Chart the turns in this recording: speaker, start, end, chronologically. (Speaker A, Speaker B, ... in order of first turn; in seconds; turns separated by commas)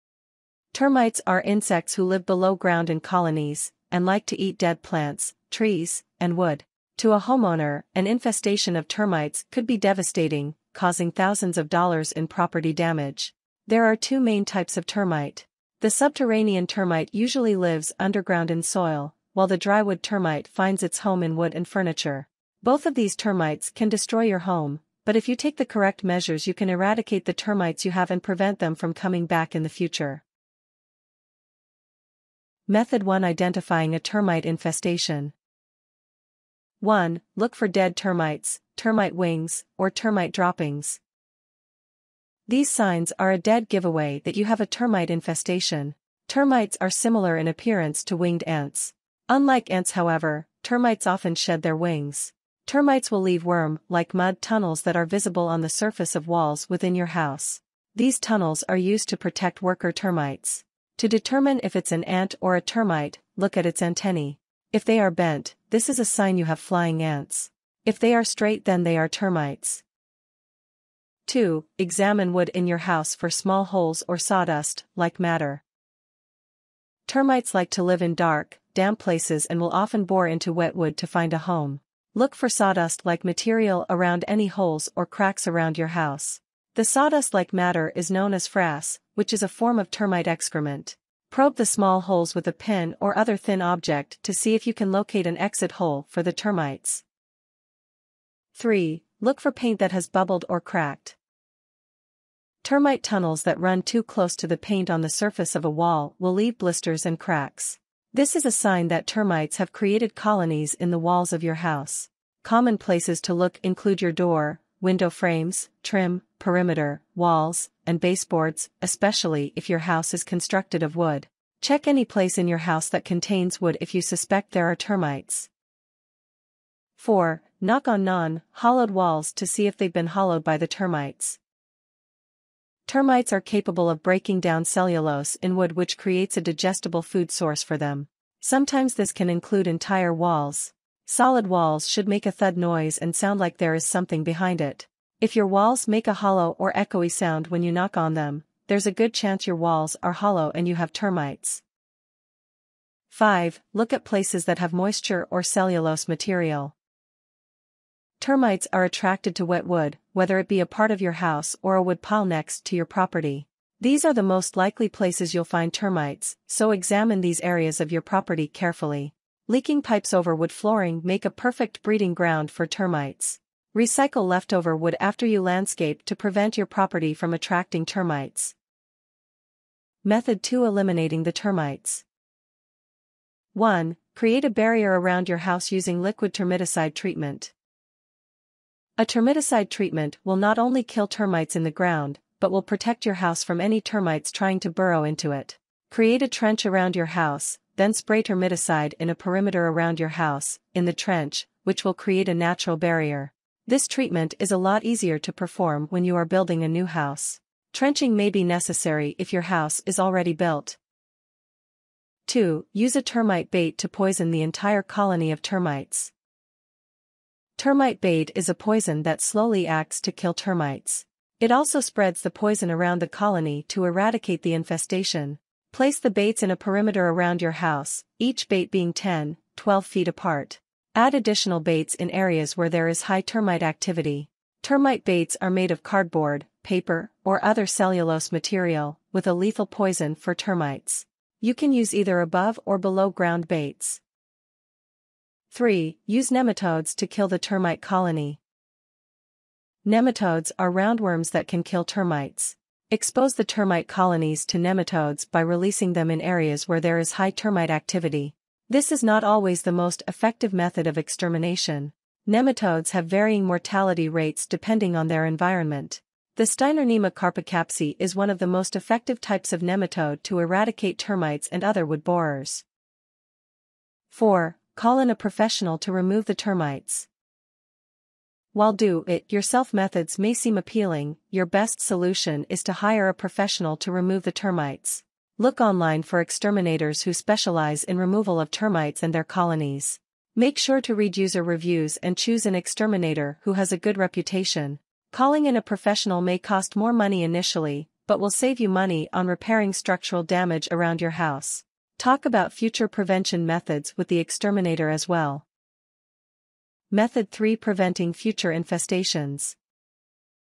Speaker A: 0.7-30.2, Speaker A: 32.7-35.3, Speaker A: 36.8-41.0, Speaker A: 42.5-69.8, Speaker A: 71.3-75.6, Speaker A: 77.1-97.0, Speaker A: 98.5-101.2, Speaker A: 102.6-125.5, Speaker A: 127.0-131.4, Speaker A: 132.9-151.6, Speaker A: 153.1-156.7, Speaker A: 158.2-178.6, Speaker A: 180.0-182.1, Speaker A: 183.5-187.5, Speaker A: 189.0-210.8, Speaker A: 212.3-216.1, Speaker A: 217.6-244.0, Speaker A: 245.5-248.4, Speaker A: 249.8-272.6, Speaker A: 274.1-277.1, Speaker A: 278.5-305.4, Speaker A: 306.9-309.6